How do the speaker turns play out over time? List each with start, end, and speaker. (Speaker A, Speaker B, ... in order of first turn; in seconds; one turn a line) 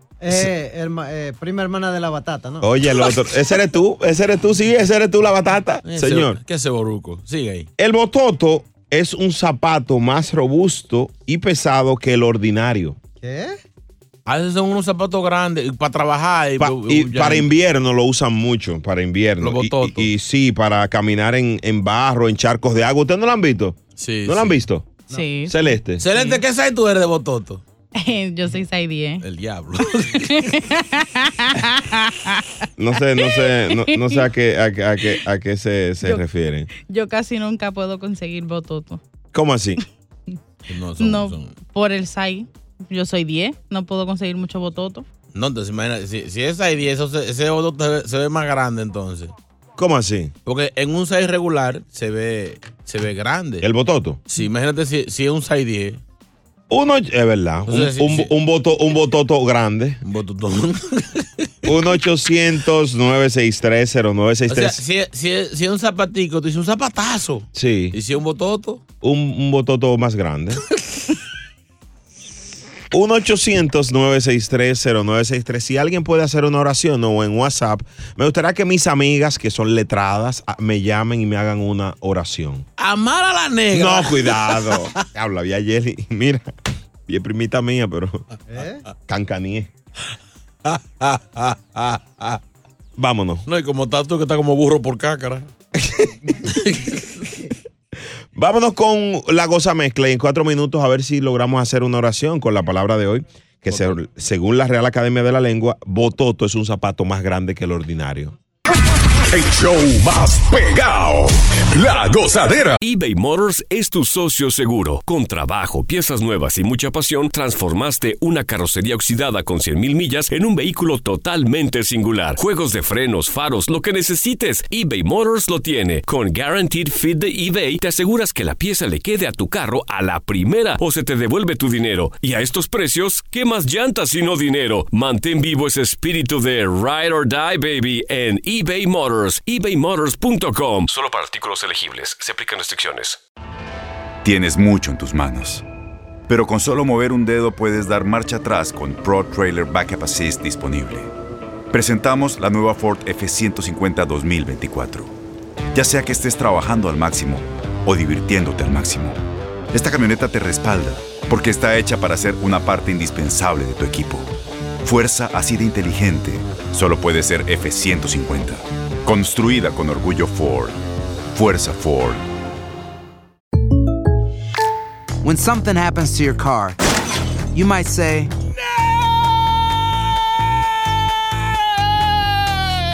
Speaker A: 0.2-2.7
Speaker B: 2.6-6.4
Speaker C: 5.8-7.7
Speaker B: 7.8-13.0
Speaker A: 13.2-13.6
Speaker C: 14.2-17.5
Speaker B: 16.6-26.1
Speaker C: 19.4-20.1
Speaker C: 24.0-24.6
Speaker D: 25.1-25.6
Speaker C: 26.0-27.6
Speaker D: 27.9-29.2
Speaker C: 29.2-30.6
Speaker D: 30.4-32.5
Speaker B: 32.8-36.7
Speaker D: 33.2-34.2
Speaker D: 36.7-39.0
Speaker B: 39.3-39.8
Speaker C: 40.7-41.6
Speaker D: 41.0-45.0
Speaker C: 45.3-49.3
Speaker B: 49.8-50.3
Speaker C: 50.5-53.7
Speaker B: 53.6-54.2
Speaker C: 54.3-56.0
Speaker B: 56.7-60.0
Speaker C: 57.6-58.3
Speaker C: 60.0-61.5
Speaker B: 61.6-64.8
Speaker C: 64.5-68.8
Speaker B: 67.5-68.0
Speaker B: 69.0-70.6
Speaker B: 72.9-82.7
Speaker C: 82.8-84.9
Speaker B: 83.7-86.5
Speaker B: 87.1-88.2
Speaker A: 88.5-88.8
Speaker B: 89.1-89.7
Speaker C: 90.6-92.4
Speaker B: 93.0-93.4
Speaker C: 93.5-95.5
Speaker B: 95.8-96.1
Speaker C: 96.5-97.0
Speaker B: 98.3-108.4
Speaker C: 103.7-104.0
Speaker E: 109.3-112.8
Speaker F: 112.8-143.2
Speaker G: 144.2-145.6
Speaker G: 146.3-151.1
Speaker G: 151.7-155.1
Speaker G: 155.7-159.2
Speaker G: 159.7-172.2
Speaker H: 175.2-176.8
Speaker H: 177.5-178.3